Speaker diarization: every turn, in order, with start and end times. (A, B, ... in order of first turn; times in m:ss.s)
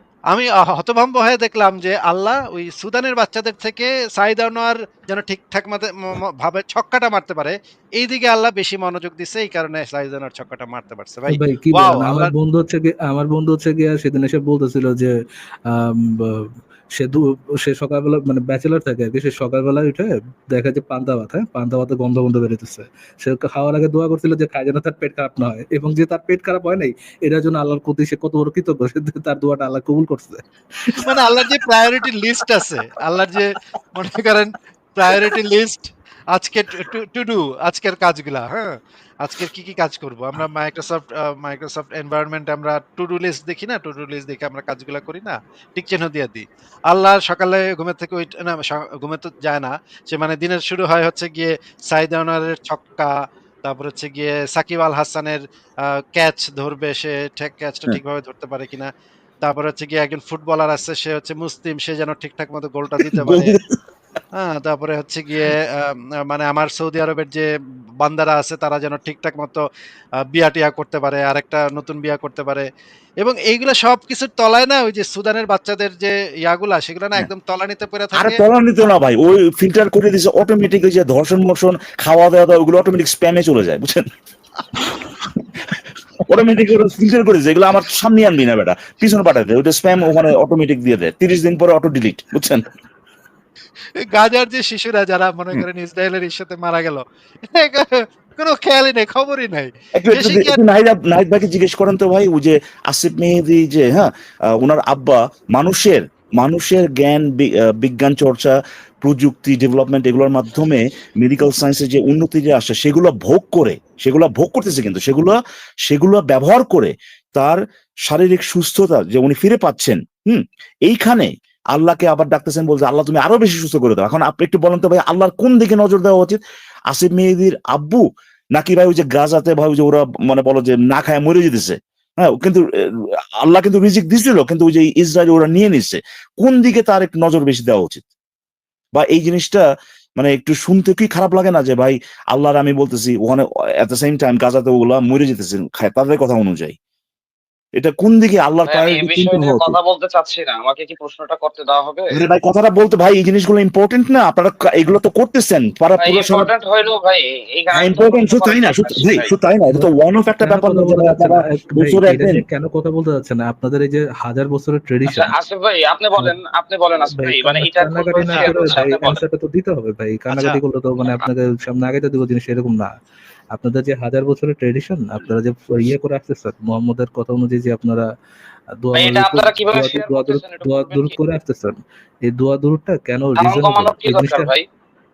0:00.3-0:12.3 A
0:11.3-0:15.1 B
0:15.7-0:31.1 B
0:31.0-0:53.1 A
0:53.6-0:58.9 A
0:59.4-1:03.6 A
1:03.0-1:03.8 C
1:04.4-1:07.5 A
1:08.0-1:09.6 A
1:10.2-1:12.7 A
1:13.2-1:18.4 A
1:18.1-1:24.1 C
1:25.4-1:32.6 C
1:34.0-1:40.6 A
1:40.0-2:18.0 C
2:18.9-2:19.6 C
2:20.2-2:26.8 C
2:27.8-2:29.8 C
2:28.7-2:32.2 D
2:32.1-2:36.5 C
2:36.0-2:39.3 D
2:37.7-2:42.4 C
2:40.4-2:45.3 B
2:45.1-2:49.2 D
2:47.1-2:52.9 B
2:50.3-2:50.6 A
2:51.0-2:51.3 D
2:53.5-2:58.1 B
2:58.8-3:04.5 B
2:58.9-3:01.2 D
3:03.4-3:04.6 D